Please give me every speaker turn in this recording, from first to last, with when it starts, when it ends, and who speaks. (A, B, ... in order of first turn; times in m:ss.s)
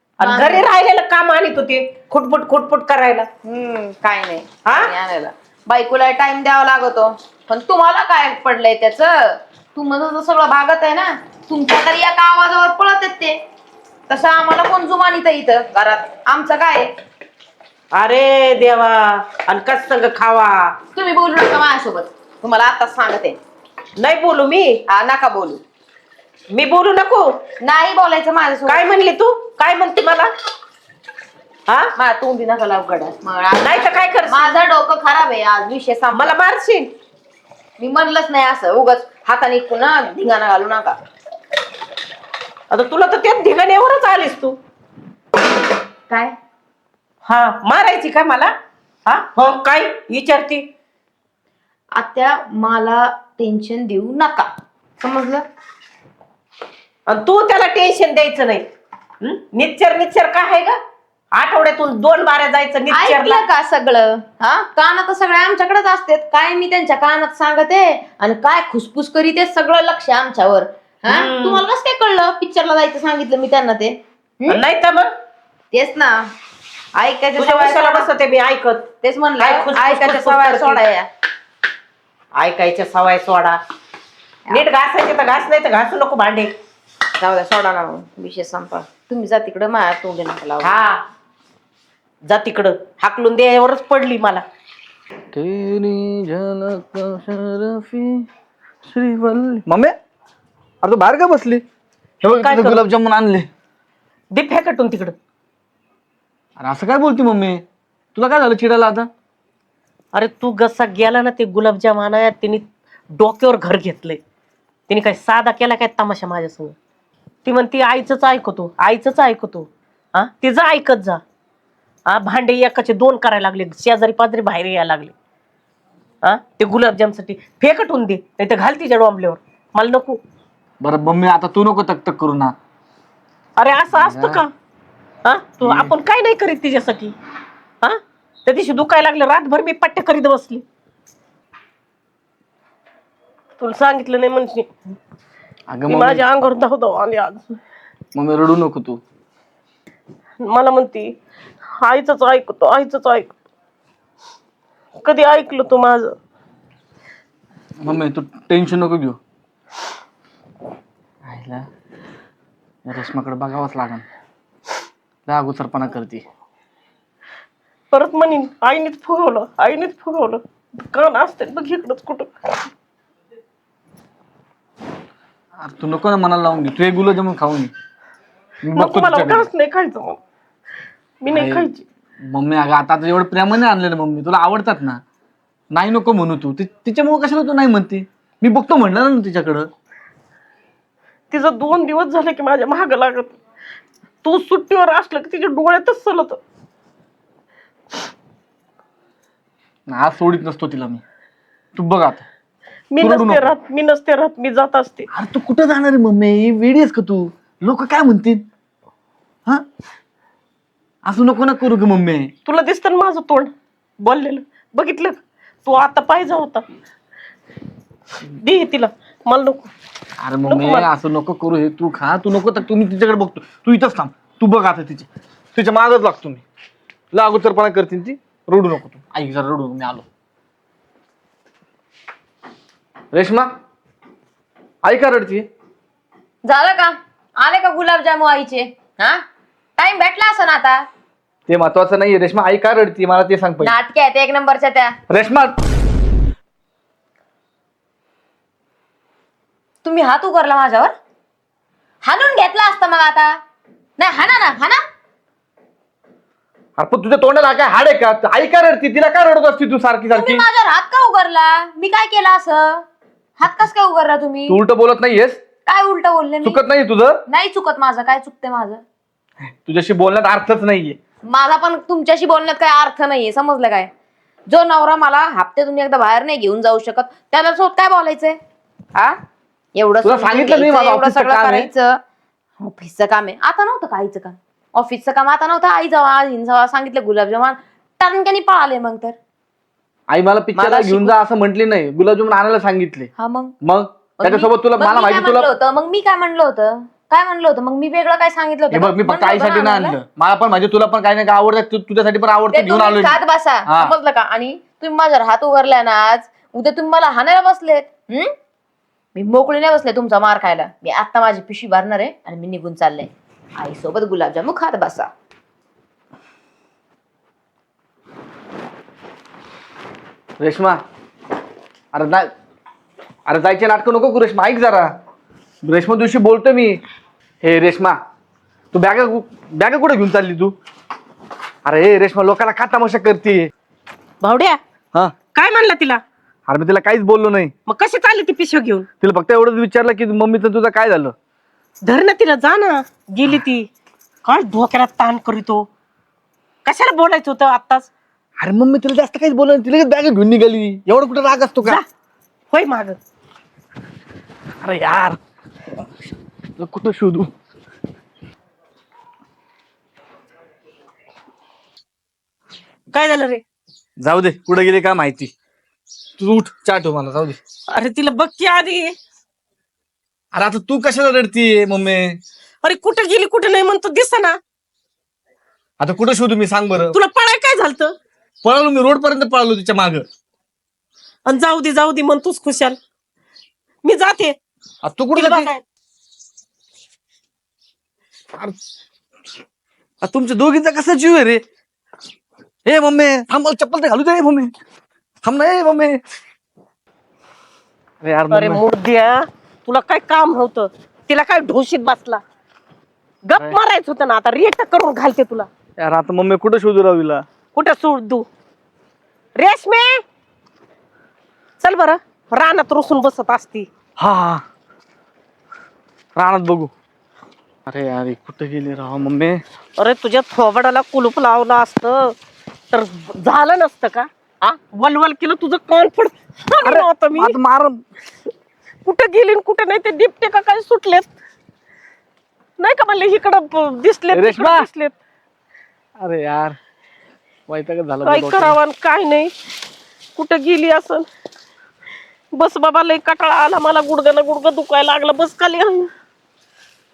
0:00.2-0:03.3 A
0:00.2-0:00.7 B
0:03.4-0:13.4 B
0:04.6-0:04.9 A
0:14.1-0:16.9 B
0:17.9-0:20.7 A
0:20.9-0:23.4 B
0:24.0-0:24.8 A
0:24.9-0:25.6 B
0:26.5-0:27.3 A
0:27.6-0:28.8 B
0:28.7-0:30.3 A
0:31.7-0:31.9 A
0:32.0-0:36.3 B
0:33.6-0:34.6 A
0:36.1-0:36.9 A
0:37.8-0:41.0 B
0:42.7-0:44.6 A
0:46.1-0:46.3 B
0:47.2-0:48.5 A
0:49.0-0:50.6 A
0:51.9-0:54.5 B
0:55.0-0:55.4 B
0:57.1-0:58.6 A
0:59.2-1:00.8 A
1:01.3-1:03.4 A
1:02.9-1:14.6 B
1:11.1-1:11.6 A
1:14.5-1:15.1 A
1:15.7-1:16.2 B
1:17.0-1:18.1 B
1:17.4-1:18.9 A
1:19.0-1:21.1 B
1:19.4-1:20.8 A
1:22.4-1:23.6 A
1:24.5-1:26.5 A
1:27.2-1:30.9 B
1:30.6-1:30.9 A
1:32.3-1:34.4 A
1:35.3-1:38.2 C
1:38.9-1:39.9 C
1:40.8-1:41.6 C
1:42.2-1:43.5 C
1:42.4-1:42.8 A
1:44.3-1:45.1 A
1:46.6-1:47.6 C
1:48.1-1:49.1 C
1:50.1-1:54.2 A
1:54.9-1:56.8 A
1:57.4-2:01.2 A
2:02.1-2:05.1 A
2:06.2-2:10.2 A
2:10.8-2:12.5 C
2:13.6-2:14.5 A
2:13.9-2:14.4 C
2:15.2-2:17.1 A
2:15.6-2:15.9 C
2:17.8-2:20.6 A
2:23.6-2:24.7 A
2:25.7-2:26.2 C
2:25.9-2:27.6 A
2:28.1-2:29.0 C
2:30.4-2:31.1 A
2:31.8-2:33.3 A
2:35.0-2:36.1 A
2:37.8-2:39.2 C
2:41.2-2:41.7 C
2:42.8-2:44.0 C
2:45.3-2:46.2 C
2:47.9-2:52.5 A
2:55.6-2:57.7 C
2:58.6-2:59.5 C
2:58.7-3:00.2 A
3:01.2-3:01.8 A
3:01.3-3:01.7 C
3:02.3-3:05.0 C
3:05.7-3:09.7 C
3:11.3-3:13.4 A
3:14.2-3:16.4 A
3:19.9-3:21.0 C
3:21.7-3:22.2 C
3:22.9-3:25.1 A
3:23.0-3:23.5 C
3:25.1-3:28.4 C
3:31.0-3:32.3 C
3:32.4-3:33.5 A
3:34.0-3:36.6 A
3:38.4-3:39.7 A
3:40.2-3:46.4 C
3:40.4-3:40.9 A
3:47.1-3:50.0 C
3:53.1-3:53.5 C
3:54.8-3:55.5 C
3:56.4-3:59.2 B
3:59.8-4:00.8 B
4:01.5-4:03.7 C
4:03.6-4:05.0 B
4:05.1-4:05.6 C
4:09.8-4:10.9 B
4:12.0-4:13.4 B
4:14.0-4:14.8 B
4:16.8-4:20.4 C
4:20.1-4:22.8 B
4:23.4-4:24.6 B
4:24.5-4:25.4 C
4:25.6-4:26.6 B
4:26.4-4:27.2 C
4:27.3-4:28.8 B
4:29.4-4:31.0 C
4:31.2-4:33.9 B
4:34.5-4:38.4 B
4:39.8-4:42.0 B
4:40.0-4:41.7 C
4:42.6-4:49.1 B
4:50.1-4:53.1 C
4:50.5-4:51.2 B
4:53.2-4:53.5 B
4:53.6-4:55.5 C
4:54.2-5:00.0 B
4:58.7-5:03.9 C
5:02.5-5:08.3 B
5:09.1-5:15.1 B
5:20.4-5:20.8 C
5:21.9-5:22.3 C
5:23.3-5:24.9 C
5:25.6-5:26.8 C
5:27.4-5:28.0 C
5:28.7-5:30.5 C
5:31.6-5:33.5 C
5:34.2-5:34.6 A
5:35.3-5:36.0 A
5:36.5-5:37.5 C
5:37.7-5:38.9 A
5:39.0-5:41.1 C
5:41.8-5:43.7 A
5:44.2-5:45.7 A
5:46.6-5:47.9 A
5:48.4-5:51.8 C
5:52.5-5:53.0 A
5:54.6-5:55.2 C
5:56.6-5:57.3 C
6:02.9-6:03.4 A
6:04.0-6:05.3 C
6:06.2-6:07.4 C
6:07.7-6:08.9 A
6:10.3-6:12.2 C
6:12.6-6:14.4 A
6:15.8-6:17.0 C
6:16.9-6:17.9 A
6:18.4-6:20.0 C
6:21.2-6:22.8 A
6:23.8-6:24.4 A
6:24.8-6:25.5 C
6:25.1-6:25.6 A
6:30.0-6:31.4 C
6:32.6-6:34.5 C
6:35.2-6:36.0 C
6:38.0-6:38.6 C
6:38.3-6:42.2 A
6:43.2-6:45.5 A
6:45.8-6:47.2 C
6:47.5-6:48.2 A
6:49.4-6:50.0 A
6:51.6-6:53.7 A
6:54.0-6:54.4 C
6:56.2-6:56.7 C
6:57.7-6:59.4 C
6:59.8-7:02.1 A
7:02.7-7:07.4 A
7:06.6-7:07.8 C
7:08.8-7:11.1 A
7:12.6-7:15.0 A
7:14.1-7:14.7 C
7:16.0-7:16.6 C
7:17.5-7:18.6 C
7:18.0-7:19.3 A
7:20.2-7:21.0 A
7:22.3-7:25.9 A